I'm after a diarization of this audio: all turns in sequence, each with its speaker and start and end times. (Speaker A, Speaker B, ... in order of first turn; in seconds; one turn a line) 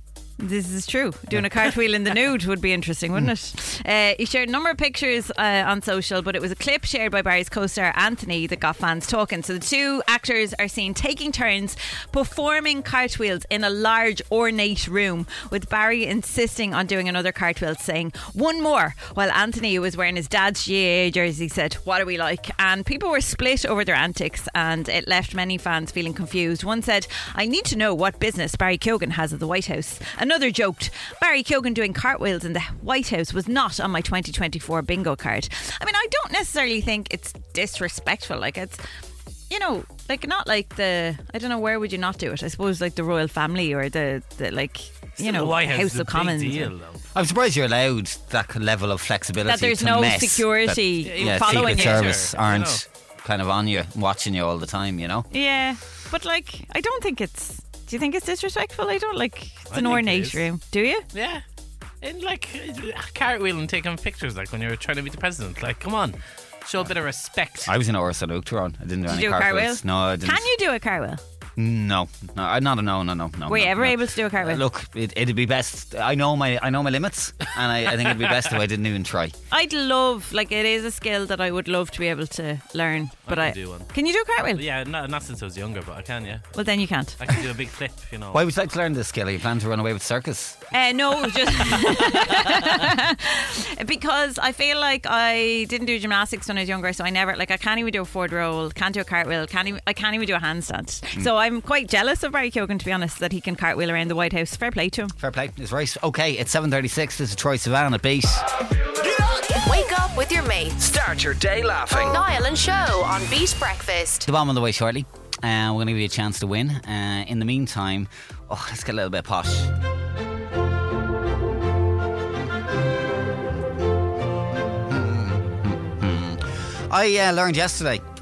Speaker A: 0.4-38.8
Speaker B: 1.3-1.6
Speaker A: 39.5-46.7
Speaker C: 45.2-47.0
Speaker B: 47.1-55.3
Speaker A: 49.5-52.2
Speaker C: 51.0-52.8
Speaker A: 55.3-61.0
Speaker C: 59.7-60.4
Speaker C: 61.1-61.4
Speaker C: 62.0-67.7
Speaker B: 67.6-70.5
Speaker A: 69.1-71.2
Speaker B: 71.6-79.3
Speaker A: 73.5-74.6
Speaker A: 79.5-84.6
Speaker C: 83.3-83.9
Speaker C: 84.5-86.5
Speaker A: 86.5-87.2
Speaker C: 87.2-88.4
Speaker B: 88.3-90.6
Speaker A: 90.7-105.1
Speaker B: 105.2-108.5
Speaker D: 109.0-109.6
Speaker E: 109.6-110.8
Speaker D: 110.8-112.2
Speaker E: 111.9-114.2
Speaker B: 114.2-119.7
Speaker B: 124.8-128.0